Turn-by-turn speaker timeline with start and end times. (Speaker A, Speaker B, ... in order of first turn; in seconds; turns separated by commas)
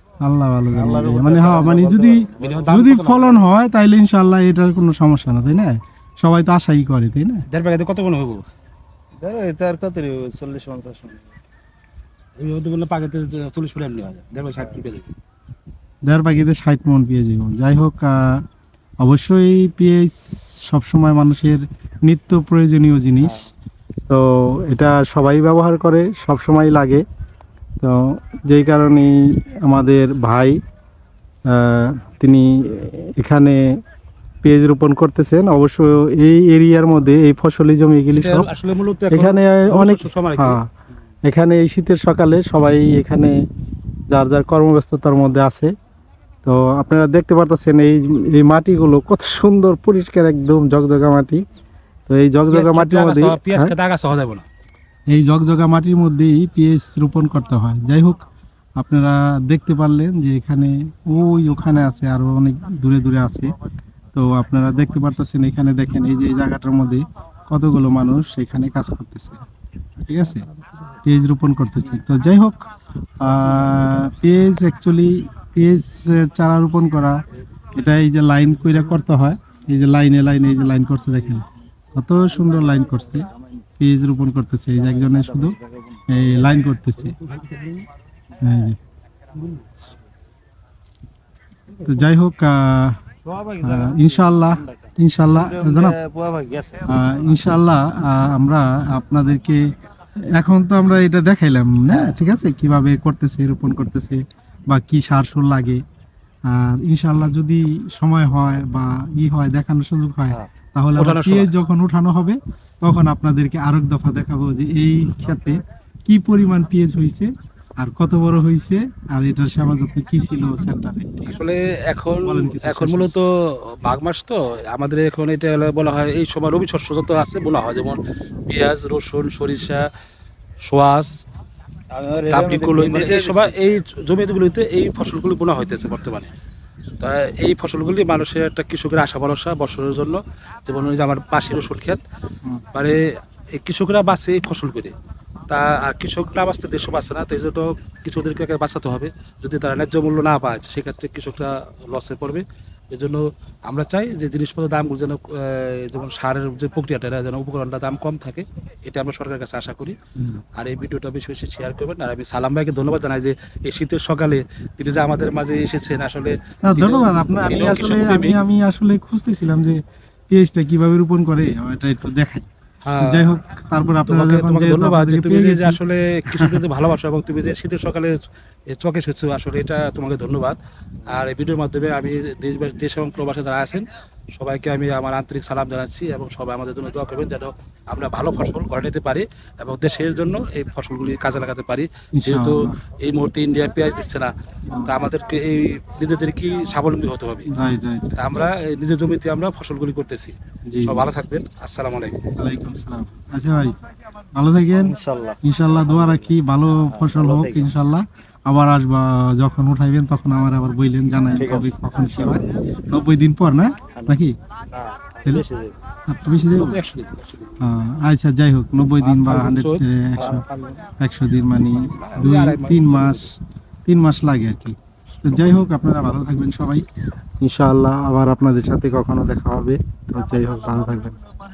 Speaker A: 0.2-7.4, Speaker B: 0.7-2.9, Speaker C: 2.4-3.5, Speaker C: 7.5-8.4, Speaker B: 9.2-11.3, Speaker C: 12.4-15.1, Speaker B: 14.6-14.8, Speaker A: 16.1-18.3, Speaker A: 19.0-23.4, Speaker B: 23.2-23.5, Speaker A: 24.1-27.0, Speaker A: 27.8-30.6, Speaker A: 31.5-33.6, Speaker A: 34.4-38.5, Speaker C: 38.1-40.6, Speaker A: 39.1-40.6, Speaker A: 41.2-43.4, Speaker A: 44.1-45.7, Speaker A: 46.4-51.4, Speaker A: 52.1-53.7, Speaker C: 52.5-54.5, Speaker A: 55.1-58.2, Speaker A: 58.8-63.5, Speaker A: 64.1-69.4, Speaker A: 70.0-70.4, Speaker A: 71.0-72.6, Speaker A: 73.2-77.2, Speaker A: 77.7-83.3, Speaker B: 82.3-83.6, Speaker A: 83.8-85.5, Speaker B: 84.7-86.6, Speaker A: 86.1-87.1, Speaker C: 87.0-87.8, Speaker A: 88.4-88.8, Speaker A: 91.8-93.0, Speaker B: 93.2-97.0, Speaker A: 93.6-96.0, Speaker A: 96.9-99.7, Speaker A: 100.3-105.8, Speaker C: 101.9-102.2, Speaker A: 106.5-117.3, Speaker C: 111.0-111.5, Speaker A: 117.8-121.5, Speaker C: 121.3-129.9, Speaker A: 122.2-123.2, Speaker C: 130.7-131.2, Speaker B: 131.9-133.5, Speaker C: 132.3-136.3, Speaker C: 137.0-142.0, Speaker C: 142.7-144.9, Speaker C: 145.5-160.0, Speaker C: 160.5-168.4, Speaker A: 166.6-172.4, Speaker C: 172.8-173.4, Speaker A: 173.0-175.8, Speaker C: 174.0-178.1, Speaker A: 176.3-176.6, Speaker C: 178.7-194.3, Speaker A: 192.1-192.7, Speaker C: 194.8-197.5, Speaker A: 197.5-198.4, Speaker C: 198.2-202.2, Speaker A: 200.7-201.1, Speaker A: 202.3-203.8, Speaker A: 204.3-214.3, Speaker B: 204.7-207.7, Speaker B: 211.3-212.5, Speaker B: 214.7-215.8, Speaker A: 216.1-216.8, Speaker C: 216.5-217.6, Speaker A: 217.6-220.4, Speaker C: 219.0-220.4, Speaker B: 220.2-220.9, Speaker A: 221.0-223.3, Speaker C: 221.7-223.3, Speaker A: 223.8-226.8, Speaker A: 227.4-231.2